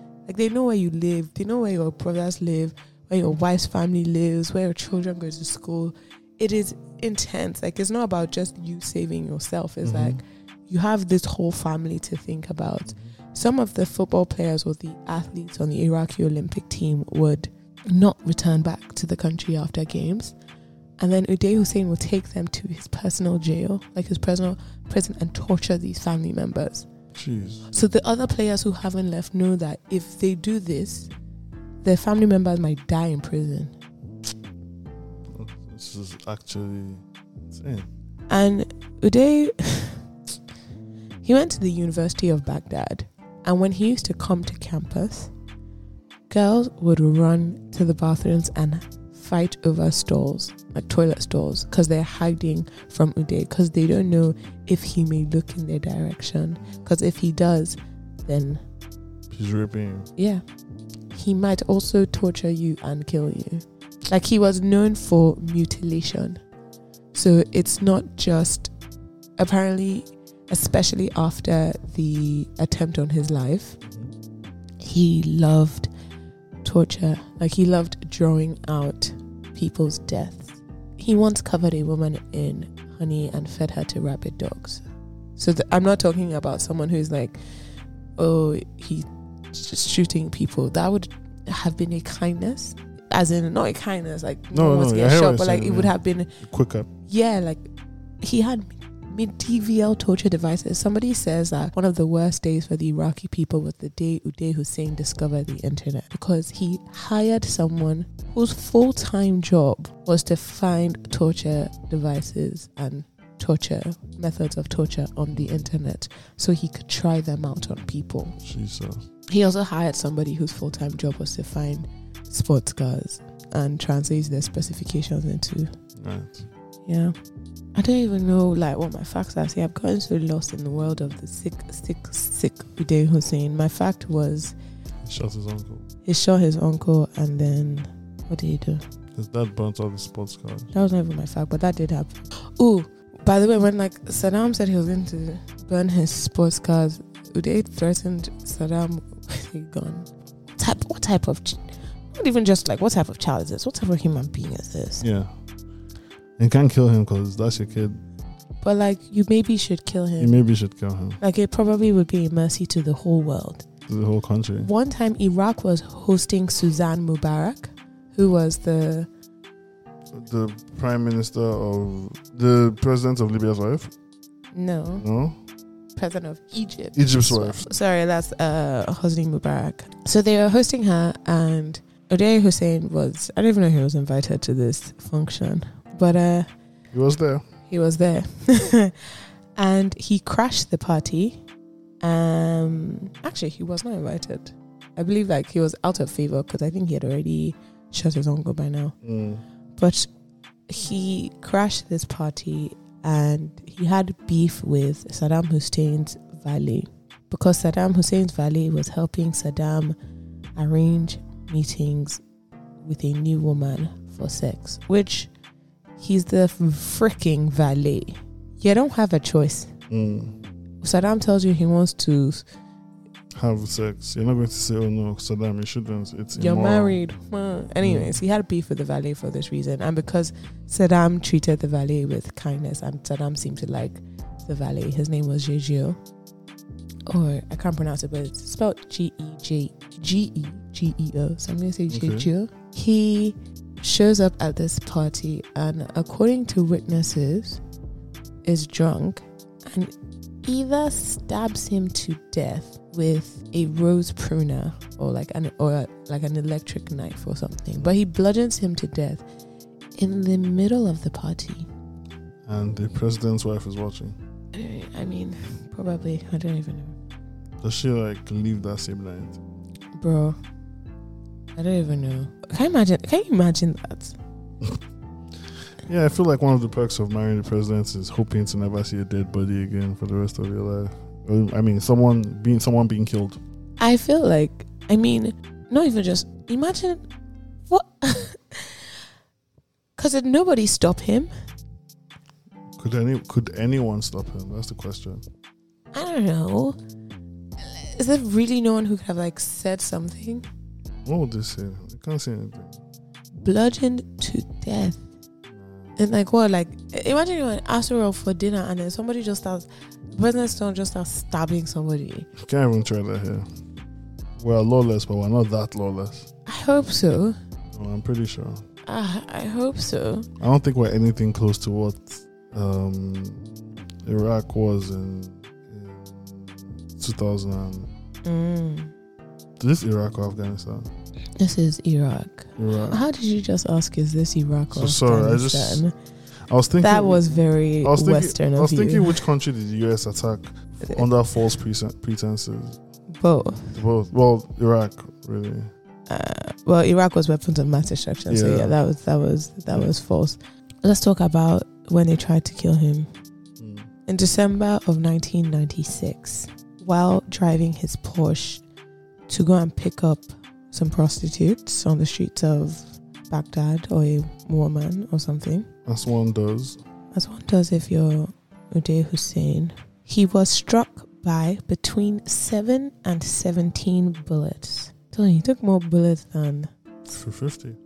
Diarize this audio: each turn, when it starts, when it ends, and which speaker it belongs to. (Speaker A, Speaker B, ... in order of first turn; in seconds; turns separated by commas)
Speaker A: 0.3-20.3, Speaker B: 9.8-10.2, Speaker B: 12.9-13.1, Speaker A: 21.0-26.9, Speaker B: 27.1-27.7, Speaker A: 27.7-31.1, Speaker A: 31.8-33.7, Speaker B: 35.3-37.9, Speaker A: 38.3-40.0, Speaker A: 41.2-45.3, Speaker A: 46.3-58.6, Speaker B: 56.6-56.9, Speaker B: 59.3-60.1, Speaker A: 60.2-60.4, Speaker A: 61.1-66.4, Speaker A: 67.1-68.7, Speaker A: 69.4-73.8, Speaker B: 73.8-74.1, Speaker A: 74.8-75.9, Speaker A: 76.6-84.8, Speaker A: 85.4-87.4, Speaker A: 88.2-96.3, Speaker B: 94.5-96.9, Speaker A: 97.1-97.6, Speaker A: 98.2-118.4, Speaker B: 115.3-115.7, Speaker B: 118.4-119.0, Speaker A: 119.3-125.7, Speaker B: 126.0-126.5, Speaker A: 126.9-127.1, Speaker A: 127.7-134.5, Speaker B: 135.0-135.8, Speaker A: 136.1-138.8, Speaker B: 139.1-140.7, Speaker A: 140.7-155.1, Speaker B: 155.0-155.3, Speaker B: 156.4-158.0, Speaker A: 158.6-160.4, Speaker B: 160.2-161.2, Speaker A: 161.2-163.7, Speaker B: 163.9-164.7, Speaker A: 164.6-169.1, Speaker B: 170.1-173.9, Speaker A: 174.5-175.0, Speaker B: 175.0-175.4, Speaker A: 175.9-186.5, Speaker B: 176.9-177.7, Speaker B: 186.9-187.4, Speaker A: 187.7-191.4, Speaker A: 192.0-198.9, Speaker B: 199.0-199.4, Speaker A: 199.8-200.1, Speaker A: 200.7-209.9, Speaker A: 210.6-212.2, Speaker A: 212.8-215.3, Speaker A: 216.0-219.7, Speaker B: 219.9-220.4, Speaker A: 220.8-222.4, Speaker B: 223.3-227.0, Speaker A: 226.3-236.0, Speaker B: 227.8-228.1, Speaker A: 237.1-247.6, Speaker B: 241.9-242.3, Speaker A: 248.4-249.9, Speaker A: 250.4-259.2, Speaker A: 260.0-261.7, Speaker B: 262.4-264.2, Speaker A: 264.5-267.0, Speaker B: 267.6-269.4, Speaker A: 269.9-270.4, Speaker A: 271.6-274.1, Speaker B: 275.8-283.4, Speaker A: 283.8-287.0, Speaker A: 287.7-288.9, Speaker A: 290.0-291.3, Speaker B: 292.8-295.2, Speaker A: 295.9-296.8, Speaker A: 297.6-300.4, Speaker B: 301.0-302.8, Speaker A: 303.4-305.0, Speaker B: 305.5-305.9, Speaker A: 306.0-312.3, Speaker B: 312.4-313.4, Speaker B: 314.4-316.3, Speaker A: 316.4-317.4, Speaker B: 317.7-318.6, Speaker A: 318.9-320.3, Speaker B: 320.4-323.5, Speaker B: 324.0-327.9, Speaker A: 328.2-328.9, Speaker B: 329.6-330.9, Speaker A: 331.4-335.9, Speaker B: 332.6-333.0, Speaker B: 334.7-335.8, Speaker B: 336.5-342.8, Speaker A: 336.8-339.2, Speaker A: 343.1-343.8, Speaker B: 343.7-345.7, Speaker A: 346.1-353.1, Speaker B: 348.3-348.7, Speaker B: 353.6-353.9, Speaker A: 354.1-358.6, Speaker A: 359.3-365.7, Speaker B: 365.8-366.8, Speaker A: 367.1-376.7, Speaker B: 377.1-377.8